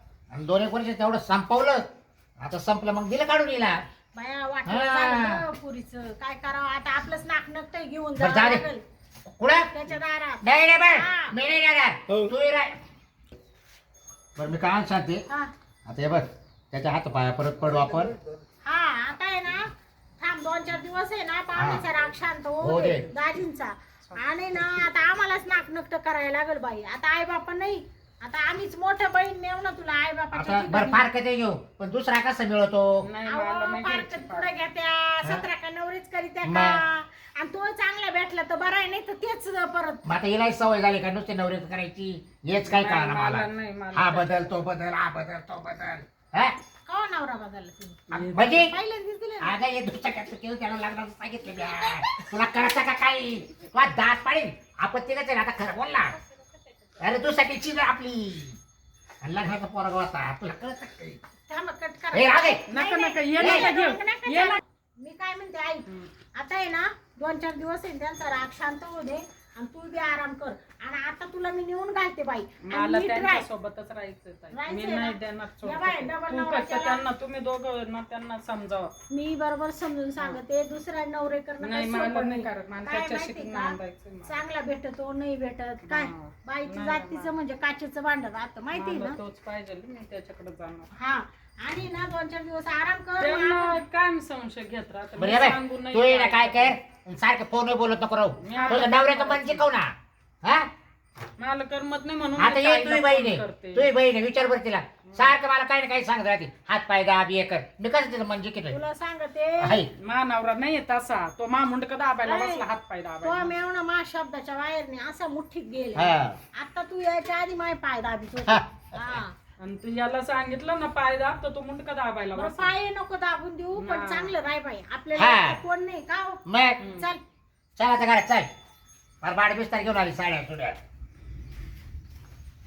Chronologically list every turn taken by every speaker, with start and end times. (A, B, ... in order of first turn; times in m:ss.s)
0:00.3-0:01.8 A
0:02.4-0:03.8 A
0:04.1-0:08.8 B
0:04.7-0:05.4 A
0:08.2-0:08.6 A
0:09.3-0:09.7 A
0:09.7-0:11.4 B
0:10.4-0:12.8 A
0:14.4-0:15.2 A
0:15.9-0:18.1 A
0:18.6-0:19.7 B
0:20.2-0:31.1 B
0:21.6-0:21.8 A
0:22.6-0:23.1 A
0:30.4-0:33.1 A
0:33.0-0:34.5 C
0:33.3-0:40.0 B
0:36.4-0:36.8 A
0:40.1-0:46.6 A
0:42.6-0:44.3 C
0:46.9-0:49.6 B
0:48.1-0:48.7 C
0:48.1-0:48.7 A
0:49.4-0:56.2 A
0:57.0-0:58.6 A
0:59.2-1:01.2 A
1:01.5-1:13.5 B
1:02.1-1:02.6 A
1:02.7-1:04.6 C
1:03.4-1:03.7 A
1:12.6-1:18.9 C
1:14.5-1:17.0 B
1:19.1-1:29.2 B
1:21.6-1:24.4 C
1:25.9-1:27.3 C
1:28.7-1:30.9 C
1:30.9-1:33.8 B
1:33.2-1:36.8 C
1:35.2-1:40.7 A
1:38.4-1:39.6 C
1:38.5-1:38.9 B
1:41.4-1:43.9 C
1:42.4-1:48.8 A
1:45.1-1:45.4 C
1:48.7-1:49.8 B
1:49.6-1:49.9 A
1:50.0-1:53.5 C
1:52.2-1:52.6 B
1:53.2-1:59.4 B
1:56.0-1:56.4 A
1:58.5-1:59.2 A
1:59.6-2:02.7 C
2:02.4-2:07.2 B
2:03.8-2:04.3 C
2:05.2-2:05.6 A
2:06.5-2:06.8 A
2:06.8-2:07.1 C
2:07.8-2:08.5 A
2:09.2-2:10.8 A